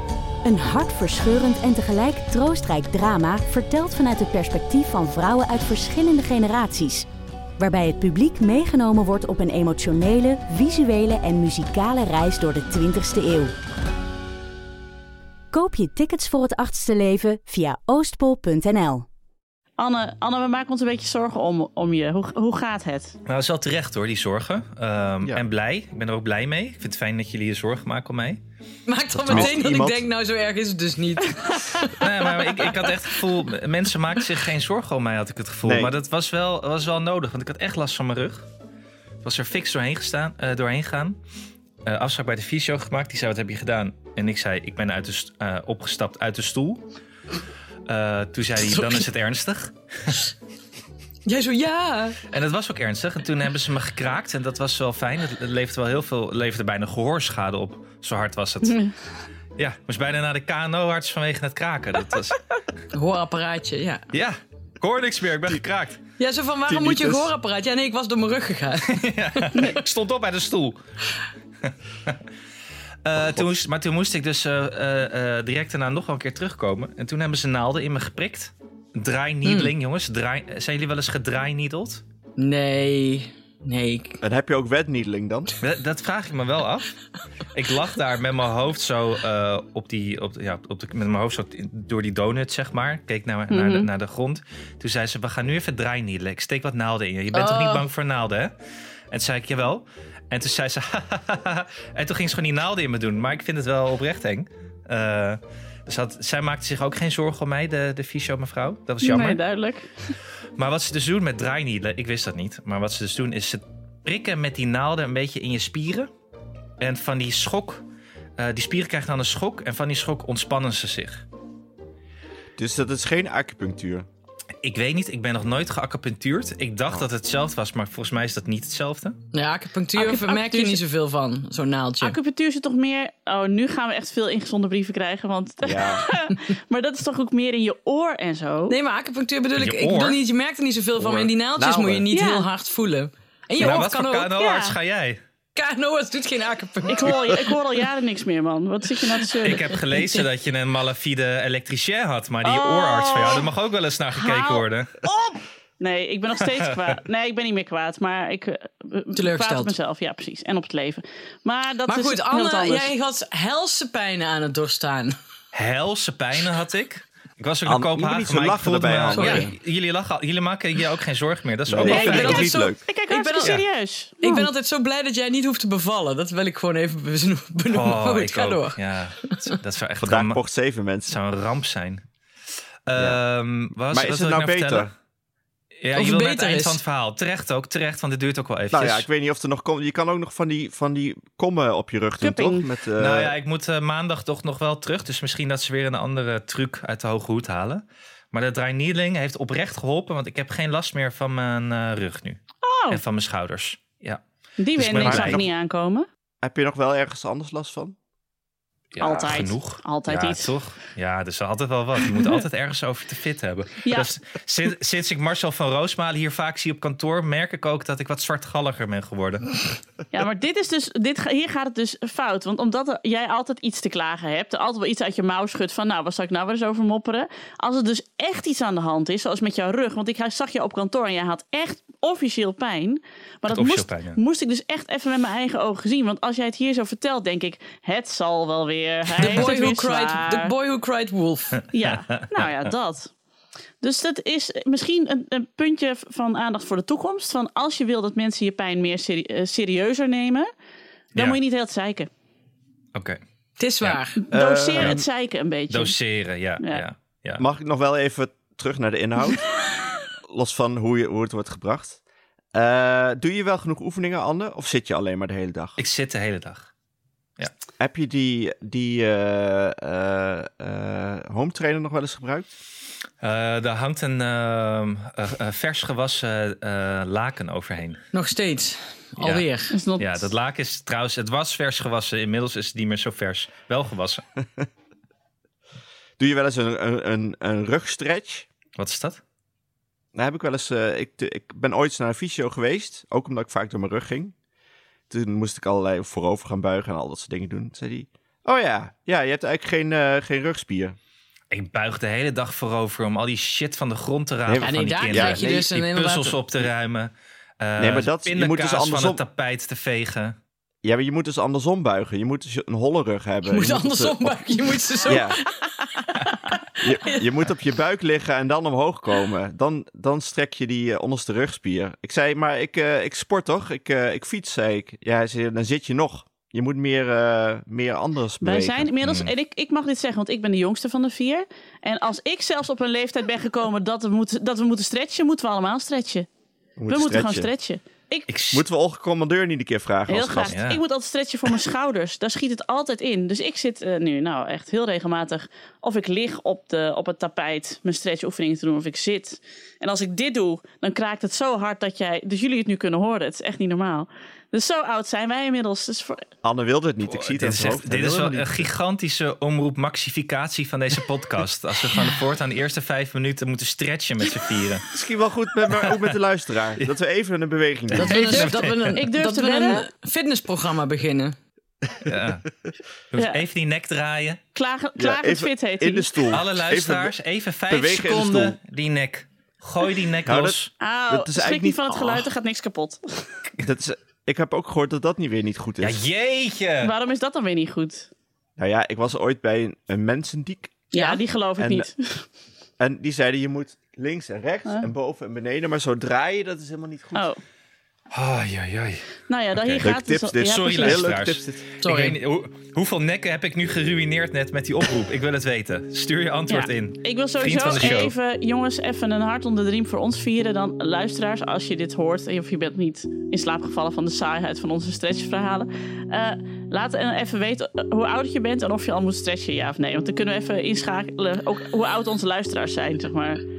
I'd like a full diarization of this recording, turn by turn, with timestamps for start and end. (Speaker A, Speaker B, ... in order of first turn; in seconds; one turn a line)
Speaker A: 0.5-7.1
Speaker A: 7.6-13.5
Speaker A: 15.5-19.1
Speaker B: 19.8-23.1
Speaker C: 23.3-28.4
Speaker D: 28.9-32.7
Speaker C: 29.2-29.5
Speaker E: 29.3-30.1
Speaker B: 31.4-32.0
Speaker C: 32.0-38.5
Speaker E: 35.6-35.9
Speaker C: 39.2-41.2
Speaker C: 41.9-46.9
Speaker C: 47.9-50.2
Speaker D: 48.6-49.1
Speaker D: 51.3-52.2
Speaker C: 52.3-58.9
Speaker C: 59.6-62.5
Speaker D: 62.9-64.1
Speaker C: 64.1-66.0
Speaker D: 66.2-69.8
Speaker E: 66.7-67.3
Speaker C: 68.9-70.8
Speaker C: 73.0-82.0
Speaker E: 73.2-73.5
Speaker D: 79.5-79.7
Speaker D: 82.4-84.2
Speaker E: 84.2-85.5
Speaker C: 85.6-86.9
Speaker C: 87.5-98.5
Speaker B: 93.5-93.9
Speaker D: 97.3-97.8
Speaker C: 99.1-109.4
Speaker B: 109.0-109.9
Speaker C: 110.6-116.1
Speaker C: 116.8-117.8
Speaker C: 118.4-121.2
Speaker E: 122.6-124.1
Speaker C: 124.6-129.2
Speaker D: 129.3-132.2
Speaker B: 130.0-130.8
Speaker B: 132.0-138.8
Speaker E: 135.6-136.1
Speaker D: 138.7-144.3
Speaker C: 139.6-140.2
Speaker E: 141.0-142.1
Speaker B: 142.1-142.5
Speaker C: 143.6-145.2
Speaker B: 144.3-144.8
Speaker D: 145.6-147.6
Speaker B: 146.9-149.7
Speaker C: 149.4-155.0
Speaker B: 152.4-153.5
Speaker B: 154.1-162.9
Speaker D: 159.2-159.7
Speaker D: 161.9-165.2
Speaker C: 165.5-172.5
Speaker E: 167.7-169.6
Speaker D: 169.2-169.5
Speaker E: 171.7-172.8
Speaker D: 171.8-173.6
Speaker B: 171.8-174.5
Speaker D: 174.2-179.4
Speaker C: 177.7-180.4
Speaker E: 180.0-181.2
Speaker C: 181.1-182.0
Speaker C: 182.9-184.9
Speaker E: 182.9-183.2
Speaker E: 183.9-184.9
Speaker C: 185.8-189.1
Speaker D: 185.9-186.8
Speaker E: 188.7-193.3
Speaker B: 192.2-192.7
Speaker C: 193.0-204.2
Speaker B: 202.6-203.0
Speaker B: 204.6-206.1
Speaker C: 204.8-205.4
Speaker E: 204.9-205.5
Speaker E: 206.4-208.0
Speaker C: 208.9-219.6
Speaker B: 209.0-210.5
Speaker B: 213.8-214.1
Speaker B: 220.1-240.5
Speaker C: 233.5-234.2
Speaker D: 239.2-241.7
Speaker C: 239.3-239.7
Speaker B: 241.7-243.1
Speaker C: 241.8-242.5
Speaker B: 243.8-250.5
Speaker B: 251.1-252.1
Speaker D: 253.6-254.2
Speaker B: 254.2-255.9
Speaker E: 254.3-255.0
Speaker C: 255.7-257.4
Speaker E: 257.4-259.4
Speaker E: 260.3-262.0
Speaker E: 262.5-265.8
Speaker C: 265.8-266.7
Speaker E: 267.8-272.5
Speaker C: 273.2-278.1
Speaker D: 278.1-279.7
Speaker C: 279.2-284.2
Speaker B: 279.7-280.3
Speaker E: 286.2-288.5
Speaker C: 288.8-289.2
Speaker E: 290.1-294.3
Speaker E: 295.1-301.0
Speaker C: 301.5-310.4
Speaker E: 304.5-305.7
Speaker D: 304.6-306.4
Speaker E: 307.8-309.2
Speaker E: 310.8-315.4
Speaker D: 313.5-317.3
Speaker E: 316.8-328.9
Speaker B: 328.4-336.3
Speaker C: 329.0-329.3
Speaker E: 336.8-337.5
Speaker B: 336.9-338.3
Speaker C: 338.3-338.6
Speaker E: 338.5-340.6
Speaker B: 340.1-356.3
Speaker C: 340.5-340.8
Speaker E: 356.4-358.7
Speaker C: 357.1-364.9
Speaker E: 364.9-368.5
Speaker C: 365.7-366.1
Speaker C: 367.9-369.0
Speaker D: 367.9-371.4
Speaker B: 368.9-369.9
Speaker C: 372.0-372.5
Speaker C: 373.1-374.4
Speaker B: 373.2-373.4
Speaker B: 374.5-376.3
Speaker E: 375.0-377.1
Speaker C: 376.3-380.7
Speaker E: 377.7-378.6
Speaker E: 380.3-380.6
Speaker B: 380.8-383.0
Speaker E: 381.1-382.3
Speaker E: 383.6-386.0
Speaker C: 385.8-386.9
Speaker B: 386.8-388.1
Speaker E: 388.6-390.9
Speaker B: 390.9-392.3
Speaker D: 390.9-391.2
Speaker E: 391.6-391.9
Speaker E: 392.8-397.3
Speaker C: 398.1-399.9
Speaker B: 399.3-401.1
Speaker E: 399.8-401.6
Speaker C: 400.4-408.1
Speaker D: 401.8-402.2
Speaker B: 406.5-423.4